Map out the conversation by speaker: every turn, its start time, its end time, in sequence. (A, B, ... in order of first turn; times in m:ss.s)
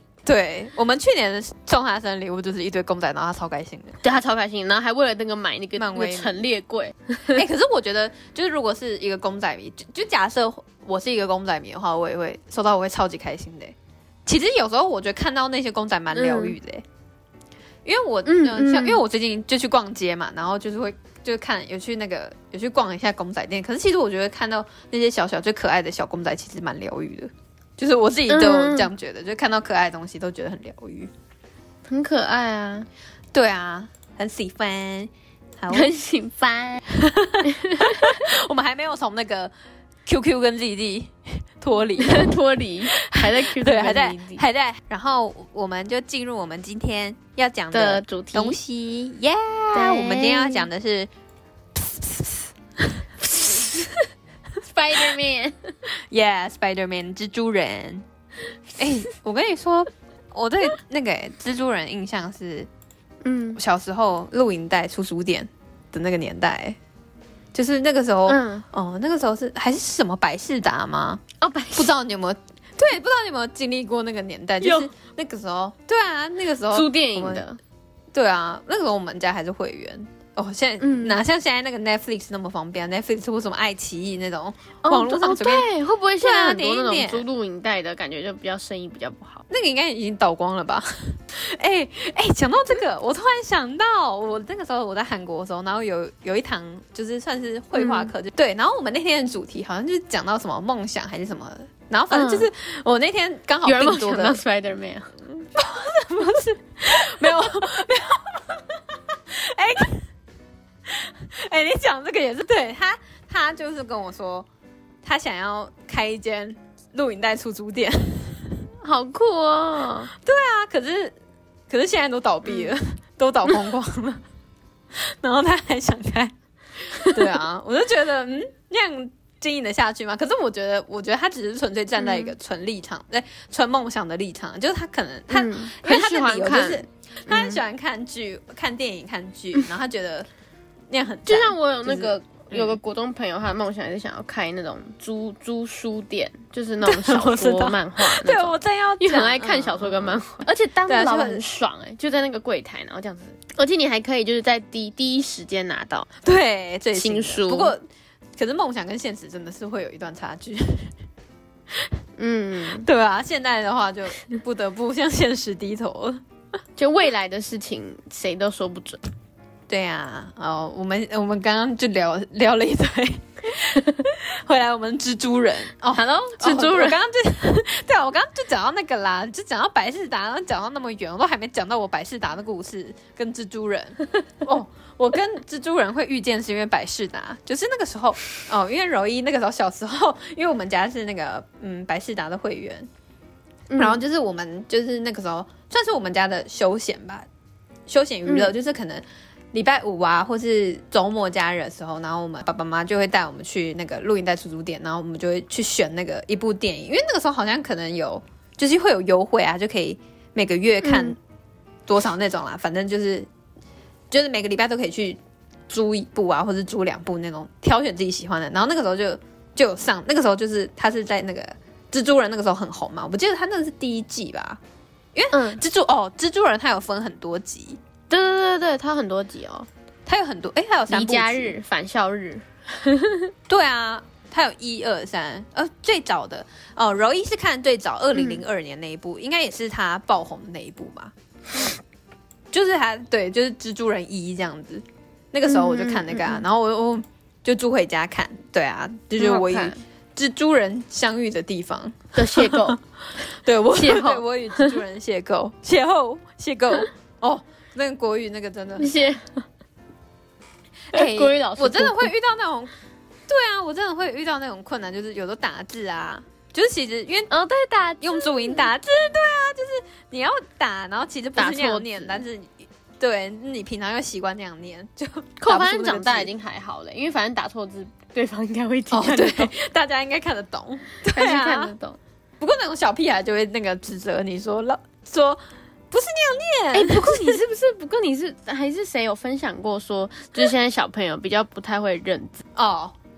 0:00.2-0:04.0 A
0:04.0-0:07.4 B
0:05.8-0:06.4 A
0:07.3-0:13.7 A
0:14.2-0:16.8 A
0:16.1-0:16.6 B
0:17.8-0:31.1 A
0:18.2-0:19.0 B
0:28.3-0:28.9 B
0:31.9-0:32.9 B
0:33.3-0:35.9 A
0:35.7-0:36.8 B
0:37.1-0:39.5 A
0:37.4-0:38.2 B
0:40.0-0:42.3 A
0:42.0-0:44.4 B
0:42.9-0:51.1 A
0:47.7-0:48.6 B
0:49.7-0:50.7 B
0:51.8-0:52.4 A
0:53.3-0:54.0 B
0:54.6-0:55.7 B
0:56.1-0:58.0 A
0:58.8-1:02.7 A
1:03.2-1:03.6 B
1:03.6-1:06.8 A
1:07.5-1:11.2 A
1:08.3-1:08.6 B
1:11.4-1:11.9 B
1:11.7-1:17.4 A
1:14.6-1:14.9 B
1:16.7-1:17.6 B
1:18.1-1:25.7 A
1:20.8-1:21.2 B
1:24.8-1:29.4 B
1:26.2-1:27.3 A
1:29.5-1:44.4 A
1:37.7-1:38.1 B
1:42.1-1:42.5 B
1:43.6-1:45.4 B
1:45.6-1:48.6 A
1:49.1-1:50.0 A
1:50.9-1:54.5 A
1:55.0-1:58.5 A
1:58.8-2:00.1 B
2:00.2-2:01.1 A
2:01.7-2:04.2 A
2:02.4-2:02.7 B
2:04.9-2:06.3 A
2:07.1-2:20.3 A
2:12.0-2:12.3 B
2:15.3-2:17.6 B
2:20.9-2:22.8 A
2:21.2-2:36.1 B
2:26.8-2:30.2 A
2:30.9-2:31.4 A
2:36.2-2:37.8 A
2:36.9-2:37.7 B
2:38.4-2:40.9 A
2:42.2-2:42.8 B
2:42.7-2:46.2 A
2:46.8-2:49.0 B
2:49.7-3:12.9 A
2:55.9-2:57.0 B
3:13.7-3:14.0 B
3:13.8-3:17.3 A
3:17.9-3:31.2 A
3:18.2-3:18.5 B
3:30.8-3:31.2 B
3:31.9-3:33.3 A
3:34.1-3:44.6 A
3:45.1-3:47.8 A
3:45.3-3:45.6 B
3:48.1-3:49.7 B
3:50.0-3:51.6 A
3:50.9-3:53.3 B
3:53.5-4:01.1 A
3:58.1-3:58.4 B
4:02.5-4:12.8 A
4:05.5-4:06.4 B
4:09.2-4:09.8 B
4:12.1-4:12.8 B
4:13.4-4:19.0 A
4:13.7-4:14.8 B
4:18.8-4:19.4 B
4:20.9-4:22.1 B
4:20.9-4:22.7 A
4:23.3-4:27.3 A
4:27.3-4:28.7 B
4:28.0-4:36.3 A
4:31.4-4:32.2 B
4:35.4-4:39.5 B
4:38.9-4:41.7 A
4:41.1-4:42.0 B
4:42.4-4:47.4 A
4:46.7-4:52.4 B
4:52.5-4:53.0 A